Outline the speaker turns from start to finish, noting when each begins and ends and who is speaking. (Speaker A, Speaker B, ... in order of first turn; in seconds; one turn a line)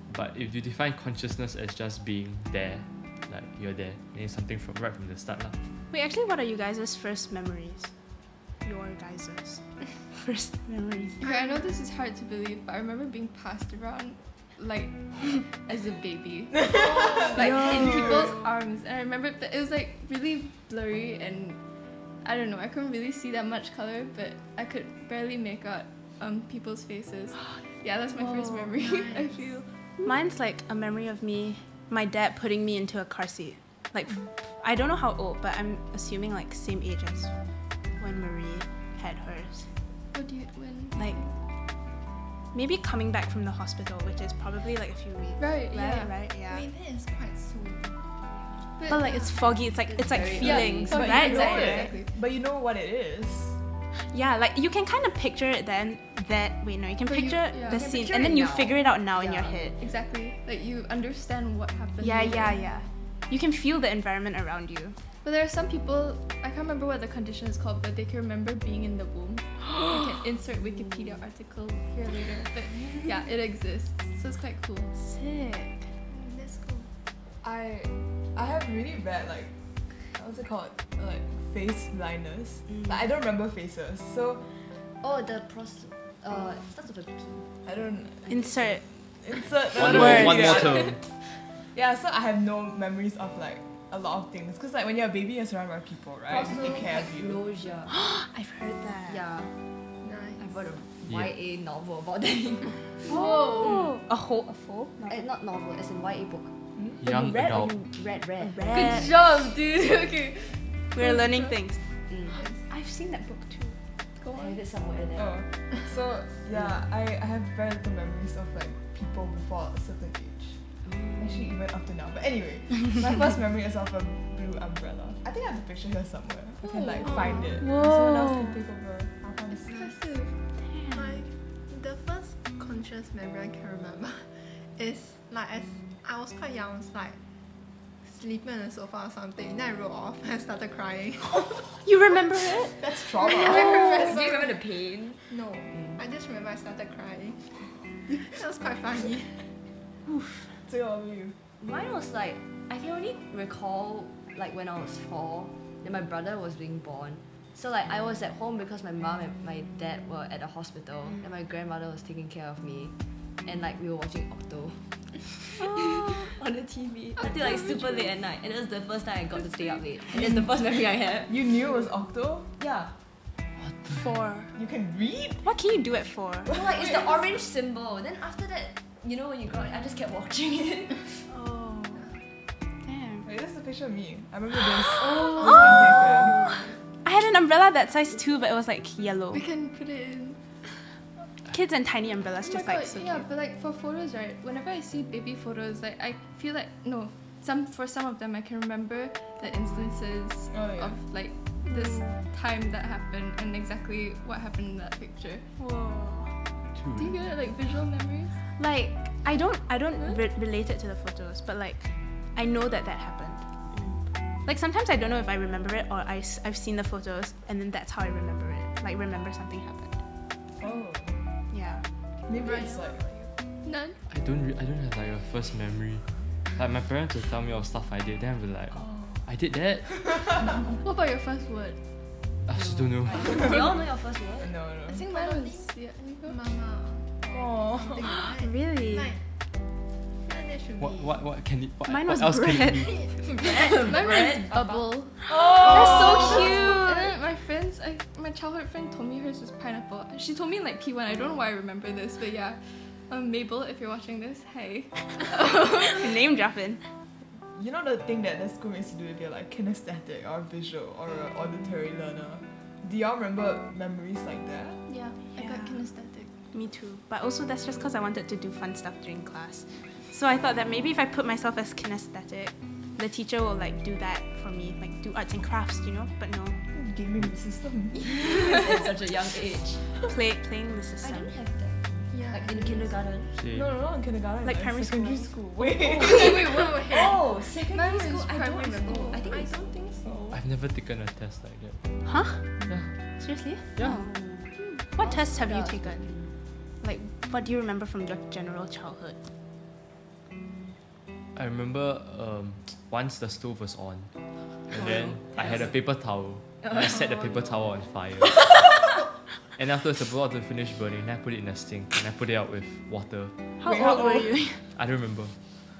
Speaker A: 0.1-5.6
Speaker B: 5.9-7.9
Speaker B: 8.6-11.2
Speaker C: 11.2-21.6
Speaker D: 11.2-11.8
Speaker D: 16.7-17.3
Speaker B: 17.4-18.2
Speaker C: 22.2-29.7
Speaker D: 28.7-29.5
Speaker B: 30.0-37.3
Speaker B: 38.0-39.7
Speaker C: 40.1-41.4
Speaker B: 42.5-46.6
Speaker C: 45.4-46.2
Speaker D: 46.5-48.0
Speaker D: 48.8-49.5
Speaker C: 48.8-49.1
Speaker B: 48.9-51.7
Speaker E: 49.8-51.0
Speaker D: 50.4-52.1
Speaker F: 50.9-53.6
Speaker C: 50.9-52.0
Speaker B: 54.1-59.8
Speaker C: 57.0-57.9
Speaker E: 57.7-59.7
Speaker C: 59.8-62.7
Speaker B: 62.0-65.0
Speaker C: 65.2-74.9
Speaker B: 74.9-75.9
Speaker D: 76.1-76.9
Speaker F: 77.4-79.5
Speaker F: 80.1-84.6
Speaker E: 85.0-87.5
Speaker F: 87.6-91.0
Speaker B: 88.3-88.8
Speaker A: 89.8-91.0
Speaker B: 89.9-90.5
Speaker F: 91.7-97.4
Speaker E: 96.3-97.9
Speaker B: 97.9-99.2
Speaker E: 99.1-99.5
Speaker D: 100.0-100.5
Speaker E: 100.4-103.0
Speaker B: 103.1-105.2
Speaker C: 103.2-103.7
Speaker E: 105.1-109.1
Speaker A: 107.0-107.8
Speaker B: 108.4-109.0
Speaker C: 108.7-111.5
Speaker B: 110.9-111.8
Speaker B: 112.7-113.8
Speaker C: 114.2-114.6
Speaker E: 114.3-115.4
Speaker F: 115.2-120.6
Speaker E: 120.8-121.4
Speaker F: 121.2-129.9
Speaker C: 126.6-127.5
Speaker D: 127.0-127.4
Speaker B: 127.6-128.6
Speaker C: 129.7-130.4
Speaker B: 130.6-131.2
Speaker D: 130.9-137.2
Speaker D: 138.0-141.6
Speaker B: 141.5-142.8
Speaker F: 142.8-144.0
Speaker D: 143.3-144.6
Speaker E: 143.4-145.2
Speaker D: 145.3-149.4
Speaker E: 145.7-146.0
Speaker B: 150.1-150.5
Speaker F: 150.6-151.3
Speaker E: 151.6-164.9
Speaker E: 165.5-171.4
Speaker B: 165.8-166.1
Speaker C: 167.2-168.1
Speaker F: 170.1-170.6
Speaker F: 171.2-172.5
Speaker E: 172.6-172.9
Speaker A: 173.6-174.0
Speaker B: 173.9-174.5
Speaker F: 174.5-175.5
Speaker B: 175.4-176.6
Speaker E: 176.5-181.2
Speaker B: 181.3-182.1
Speaker B: 182.8-183.3
Speaker F: 183.2-186.4
Speaker B: 187.0-189.4
Speaker C: 189.3-190.4
Speaker B: 191.5-193.2
Speaker C: 192.4-205.4
Speaker F: 200.5-201.0
Speaker B: 201.7-202.2
Speaker B: 205.6-206.3
Speaker A: 206.7-207.2
Speaker C: 206.9-208.3
Speaker B: 208.5-213.4
Speaker E: 213.7-214.0
Speaker B: 214.4-220.0
Speaker F: 220.6-221.2
Speaker B: 221.5-221.8
Speaker F: 222.3-223.0
Speaker D: 222.4-223.2
Speaker C: 223.6-224.0
Speaker A: 224.1-230.3
Speaker C: 230.8-231.8
Speaker A: 232.4-233.5
Speaker E: 232.5-234.5
Speaker F: 234.4-235.1
Speaker C: 234.9-236.4
Speaker D: 235.0-239.2
Speaker F: 237.3-238.1
Speaker B: 238.3-239.1
Speaker D: 240.2-241.2
Speaker A: 240.8-242.9
Speaker B: 241.8-243.1
Speaker D: 242.9-243.5
Speaker C: 243.3-256.1
Speaker E: 243.3-244.5
Speaker F: 244.5-244.8
Speaker B: 245.4-247.0
Speaker E: 245.5-246.9
Speaker B: 255.2-256.8
Speaker F: 257.5-264.8
Speaker C: 264.9-266.3
Speaker B: 265.4-265.8
Speaker B: 266.5-276.6
Speaker F: 276.7-278.8
Speaker E: 277.9-279.9
Speaker B: 280.0-281.3
Speaker E: 281.0-283.3
Speaker D: 282.1-283.0
Speaker A: 283.4-283.7
Speaker F: 283.5-286.5
Speaker B: 284.4-285.6
Speaker E: 285.8-289.7
Speaker D: 286.0-287.2
Speaker C: 287.7-289.5
Speaker D: 289.0-290.3
Speaker A: 290.3-291.8
Speaker B: 292.0-294.1
Speaker A: 292.7-293.0
Speaker E: 293.8-296.3
Speaker B: 294.9-296.1
Speaker B: 296.8-299.2
Speaker A: 301.3-304.1
Speaker A: 304.7-308.8
Speaker E: 304.7-305.7
Speaker E: 306.6-307.5
Speaker A: 309.5-314.1
Speaker B: 313.6-314.6
Speaker A: 314.7-315.4